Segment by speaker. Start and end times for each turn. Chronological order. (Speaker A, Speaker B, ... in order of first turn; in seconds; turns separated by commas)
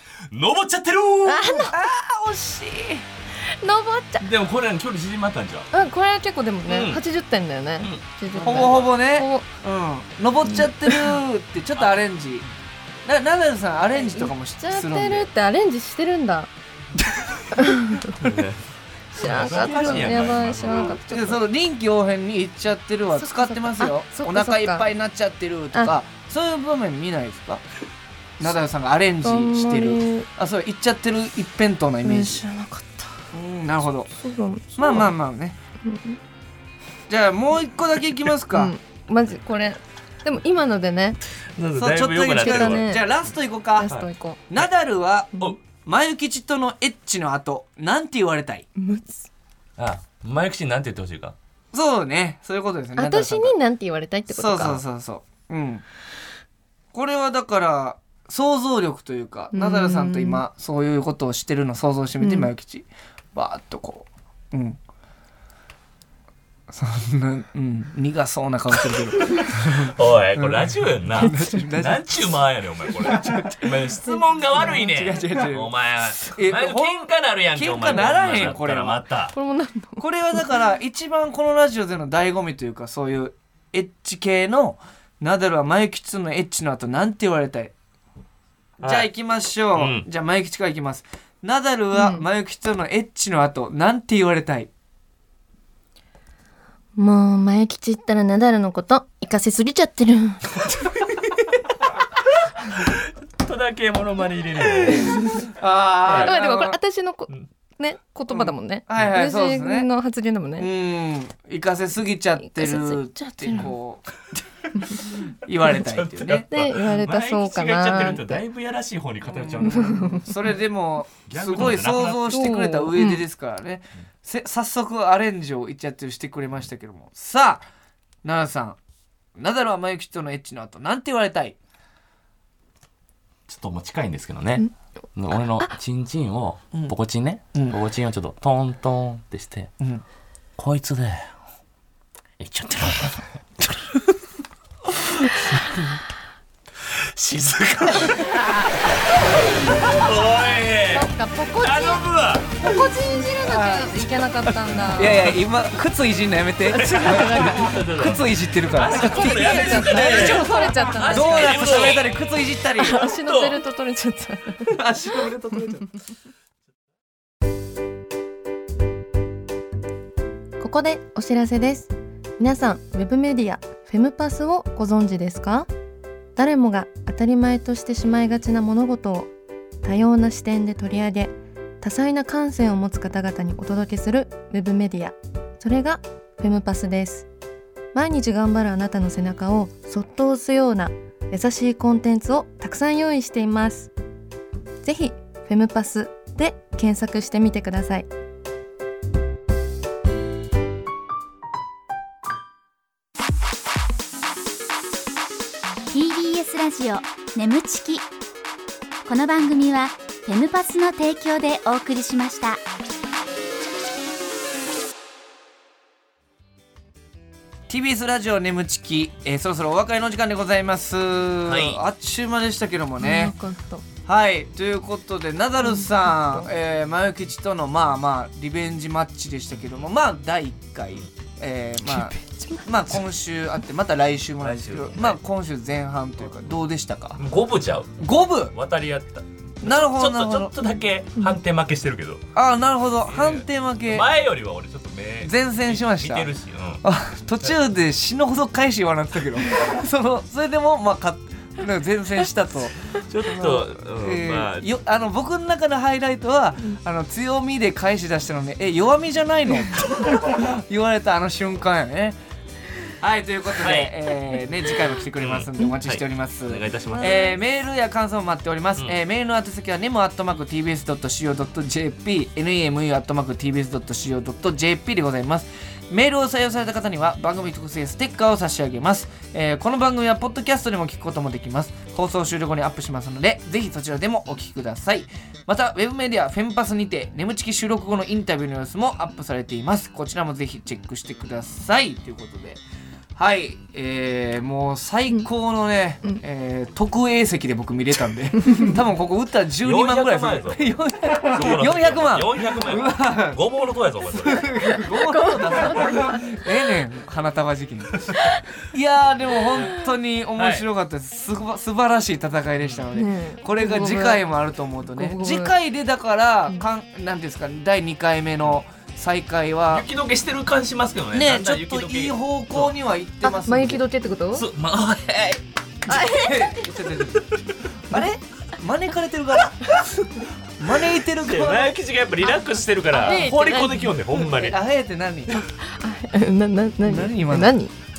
Speaker A: 0.3-1.7, Speaker B: 1.2-1.8, Speaker C: 1.7-3.0, Speaker B: 3.5-4.3, Speaker A: 4.2-5.7, Speaker B: 5.7-9.4, Speaker A: 6.7-7.0, Speaker A: 7.8-8.9, Speaker C: 8.3-12.4, Speaker B: 10.5-11.1, Speaker C: 13.1-15.3, Speaker B: 13.9-16.5, Speaker B: 17.5-18.1, Speaker A: 18.2-18.6, Speaker A: 19.1-21.0, Speaker B: 19.2-21.4, Speaker C: 19.2-27.6, Speaker B: 23.2-24.9, Speaker C: 28.4-32.4, Speaker B: 29.2-30.3, Speaker B: 32.0-33.1, Speaker C: 33.3-34.1, Speaker B: 34.2-35.1, Speaker C: 34.8-35.6, Speaker B: 35.8-36.2, Speaker C: 37.1-38.7, Speaker B: 38.5-41.2, Speaker A: 41.6-43.0, Speaker C: 41.8-44.0, Speaker B: 42.4-43.1, Speaker B: 43.8-44.4, Speaker C: 44.5-48.7, Speaker B: 48.8-49.3, Speaker A: 49.8-51.4, Speaker C: 51.7-53.5, Speaker B: 53.0-54.8, Speaker C: 54.3-55.9, Speaker C: 56.9-64.8, Speaker B: 59.5-60.4, Speaker B: 62.2-62.5, Speaker C: 66.7-72.3, Speaker A: 68.9-79.3, Speaker B: 71.2-71.6, Speaker C: 73.0-73.8, Speaker B: 74.1-74.8, Speaker C: 74.5-75.7, Speaker C: 76.3-79.1, Speaker B: 79.3-80.4, Speaker C: 80.0-87.7, Speaker C: 88.8-94.7, Speaker A: 88.8-89.1, Speaker A: 89.7-90.1, Speaker B: 91.9-92.3, Speaker B: 97.0-100.5, Speaker A: 102.8-105.3, Speaker C: 104.7-106.8, Speaker B: 105.1-105.5, Speaker B: 106.1-110.7, Speaker A: 106.1-106.3, Speaker C: 108.3-109.9, Speaker C: 110.6-114.4, Speaker B: 112.4-113.7, Speaker B: 114.8-115.1, Speaker C: 115.0-116.5, Speaker A: 115.7-120.3, Speaker B: 116.5-118.4, Speaker C: 119.3-127.6, Speaker B: 119.6-120.5, Speaker A: 121.3-122.5, Speaker B: 122.3-123.2, Speaker C: 128.2-128.8, Speaker C: 129.4-131.6, Speaker A: 133.5-139.7, Speaker C: 137.5-137.8, Speaker A: 140.6-141.3, Speaker A: 142.4-143.3, Speaker A: 146.9-152.6, Speaker B: 150.9-155.4, Speaker C: 153.5-153.8, Speaker C: 154.9-163.0, Speaker B: 156.7-157.8, Speaker A: 156.7-162.2, Speaker B: 158.9-161.9, Speaker B: 162.8-164.8, Speaker A: 163.2-163.6, Speaker C: 164.7-165.9, Speaker B: 170.6-175.7, Speaker B: 176.4-179.3, Speaker B: 179.8-187.3, Speaker B: 187.9-193.9, Speaker B: 194.8-198.1, Speaker D: 205.9-208.1, Speaker D: 209.1-212.6, Speaker C: 217.7-223.3, Speaker A: 221.5-221.8, Speaker B: 223.0-223.8, Speaker C: 224.1-237.2, Speaker B: 225.6-226.5, Speaker B: 231.9-232.7, Speaker A: 234.4-235.2, Speaker A: 237.2-242.3, Speaker C: 238.0-238.5, Speaker C: 239.6-240.5, Speaker C: 242.3-244.1, Speaker A: 243.1-246.8, Speaker C: 245.2-246.3, Speaker C: 246.8-262.2, Speaker A: 253.1-254.7, Speaker C: 263.0-292.6, Speaker A: 263.6-264.1, Speaker A: 265.2-267.3, Speaker B: 266.9-267.4, Speaker C: 293.2-303.4, Speaker A: 299.6-304.6, Speaker C: 304.1-308.1, Speaker B: 304.6-306.4, Speaker B: 308.1-308.4, Speaker C: 308.6-319.9, Speaker A: 310.4-310.7, Speaker B: 312.9-314.2, Speaker B: 314.9-315.5, Speaker A: 319.7-322.7, Speaker C: 321.1-323.8, Speaker B: 323.2-324.4, Speaker A: 324.3-325.4, Speaker C: 325.9-329.9, Speaker B: 325.9-326.7, Speaker C: 330.6-331.8, Speaker A: 331.1-334.6, Speaker B: 332.9-333.9, Speaker C: 333.0-333.2, Speaker C: 334.1-335.4, Speaker B: 335.3-337.7, Speaker C: 336.8-337.5